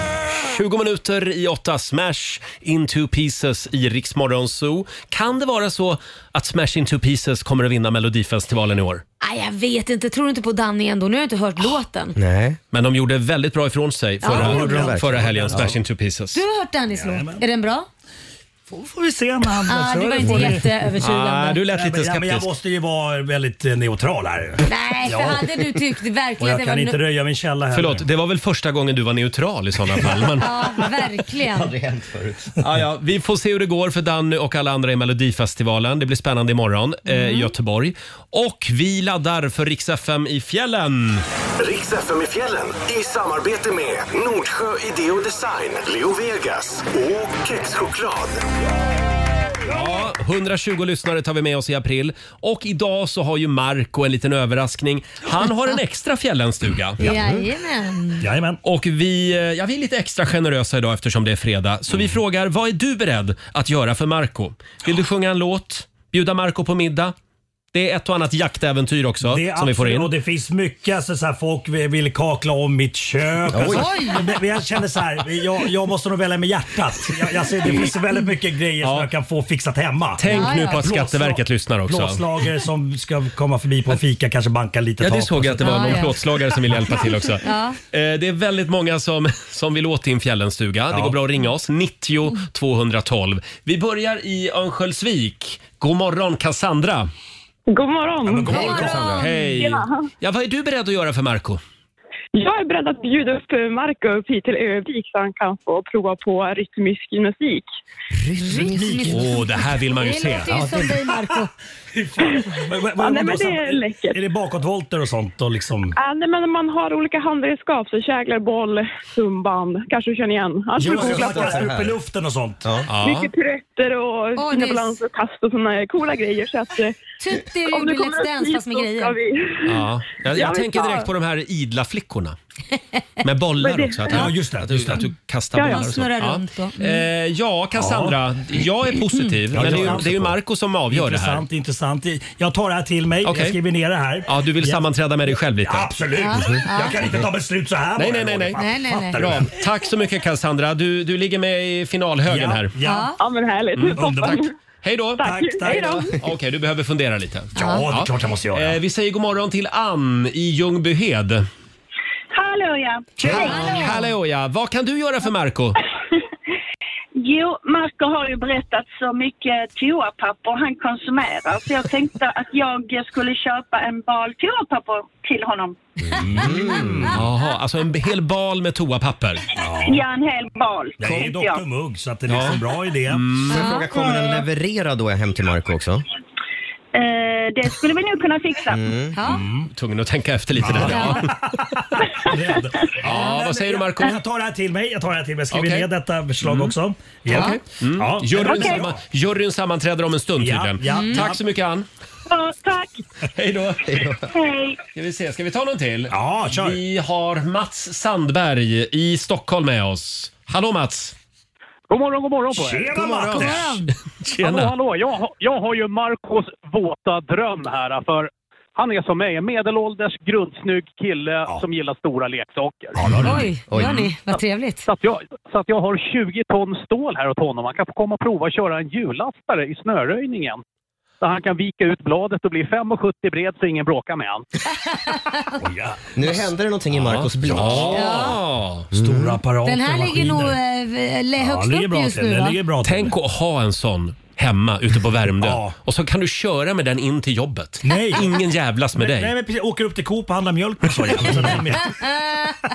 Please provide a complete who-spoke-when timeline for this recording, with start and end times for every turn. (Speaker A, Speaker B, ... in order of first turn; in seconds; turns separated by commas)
Speaker A: 0.3-9.0, Speaker B: 9.2-12.2, Speaker C: 12.2-12.6, Speaker A: 12.7-16.4, Speaker B: 14.2-15.0, Speaker C: 14.3-15.7, Speaker D: 14.3-15.7, Speaker B: 16.3-17.9, Speaker D: 16.9-17.4, Speaker D: 18.7-20.7, Speaker B: 19.6-21.6, Speaker A: 21.0-22.5, Speaker D: 21.7-25.8, Speaker B: 24.6-27.0, Speaker D: 26.4-28.0, Speaker A: 27.7-30.5, Speaker B: 30.4-31.7, Speaker C: 31.5-32.5, Speaker A: 32.6-41.2, Speaker B: 37.1-37.5, Speaker E: 41.6-48.4, Speaker A: 49.6-57.0, Speaker C: 57.0-57.5, Speaker B: 57.0-58.3, Speaker D: 58.2-58.6, Speaker A: 58.6-67.1, Speaker A: 67.7-70.1, Speaker D: 69.2-86.0, Speaker C: 73.5-73.9, Speaker B: 73.7-74.2, Speaker A: 78.8-79.1, Speaker A: 80.2-82.2, Speaker B: 80.2-80.8, Speaker A: 85.0-97.1, Speaker B: 85.6-86.2, Speaker B: 87.4-87.8, Speaker D: 90.9-91.2, Speaker F: 97.7-98.9, Speaker D: 98.2-99.2, Speaker B: 98.5-99.5, Speaker A: 98.9-101.6, Speaker F: 99.5-100.0, Speaker F: 102.3-107.7, Speaker C: 108.2-109.2, Speaker B: 108.4-111.5, Speaker D: 108.7-109.1, Speaker A: 109.1-110.5, Speaker C: 110.5-110.9, Speaker D: 110.5-111.3, Speaker D: 111.9-115.9, Speaker F: 112.2-114.2, Speaker F: 116.0-121.7, Speaker D: 120.8-122.7, Speaker C: 120.8-122.0, Speaker A: 122.9-123.3, Speaker F: 123.0-127.1, Speaker B: 124.3-125.0, Speaker B: 127.2-129.2, Speaker F: 127.7-131.1, Speaker A: 129.6-132.3, Speaker A: 133.2-141.4, Speaker F: 133.6-134.2, Speaker D: 134.1-135.0, Speaker F: 135.6-135.9, Speaker B: 135.7-137.0, Speaker D: 137.8-138.2, Speaker D: 139.5-144.8, Speaker A: 143.2-143.6, Speaker A: 144.2-145.9, Speaker D: 145.6-149.5, Speaker B: 146.2-147.0, Speaker A: 148.0-148.6, Speaker B: 148.6-149.2, Speaker A: 149.2-152.8, Speaker D: 152.2-153.1, Speaker B: 152.8-153.2, Speaker F: 153.2-154.5, Speaker A: 153.7-161.4, Speaker D: 154.0-154.4, Speaker F: 155.2-156.1, Speaker D: 155.2-156.1, Speaker D: 157.6-158.8, Speaker B: 157.6-157.9, Speaker G: 162.3-163.3, Speaker D: 163.2-163.7, Speaker A: 163.2-165.8, Speaker B: 163.2-164.1, Speaker G: 167.2-175.8, Speaker D: 176.2-177.2, Speaker C: 176.2-177.1, Speaker A: 177.1-179.4, Speaker D: 179.6-180.0, Speaker G: 179.8-181.6, Speaker D: 181.0-183.4, Speaker A: 182.3-182.6, Speaker A: 183.1-183.7, Speaker B: 183.5-184.2, Speaker C: 183.5-186.0, Speaker G: 186.9-188.8, Speaker C: 188.7-189.2, Speaker B: 189.1-189.5, Speaker D: 189.2-189.7, Speaker A: 189.7-191.3, Speaker D: 190.6-199.0, Speaker B: 190.8-191.3, Speaker A: 193.0-194.2, Speaker A: 195.5-195.9, Speaker A: 196.4-196.7, Speaker A: 197.3-201.8, Speaker B: 197.3-197.6, Speaker D: 200.4-201.4, Speaker B: 200.8-201.3, Speaker G: 202.3-202.9, Speaker A: 203.3-204.0, Speaker C: 203.9-204.3, Speaker G: 204.3-204.8, Speaker A: 204.9-211.1, Speaker D: 206.1-206.8, Speaker H: 211.9-212.9, Speaker D: 212.5-213.7, Speaker A: 213.1-213.6, Speaker B: 213.3-213.9, Speaker A: 214.2-214.7, Speaker H: 214.4-223.0, Speaker D: 222.9-223.5, Speaker B: 223.2-224.8, Speaker C: 223.7-224.1, Speaker H: 224.9-230.6, Speaker H: 231.2-234.4, Speaker B: 234.9-235.5, Speaker D: 235.6-236.5, Speaker C: 236.1-238.1, Speaker A: 236.9-238.9, Speaker D: 237.5-238.3, Speaker B: 237.9-238.4, Speaker C: 238.9-239.4, Speaker D: 238.9-240.6, Speaker B: 239.6-242.6, Speaker D: 241.4-243.2, Speaker A: 242.8-249.3, Speaker D: 245.3-245.7, Speaker D: 247.8-248.4, Speaker D: 248.9-252.0, Speaker B: 252.0-252.5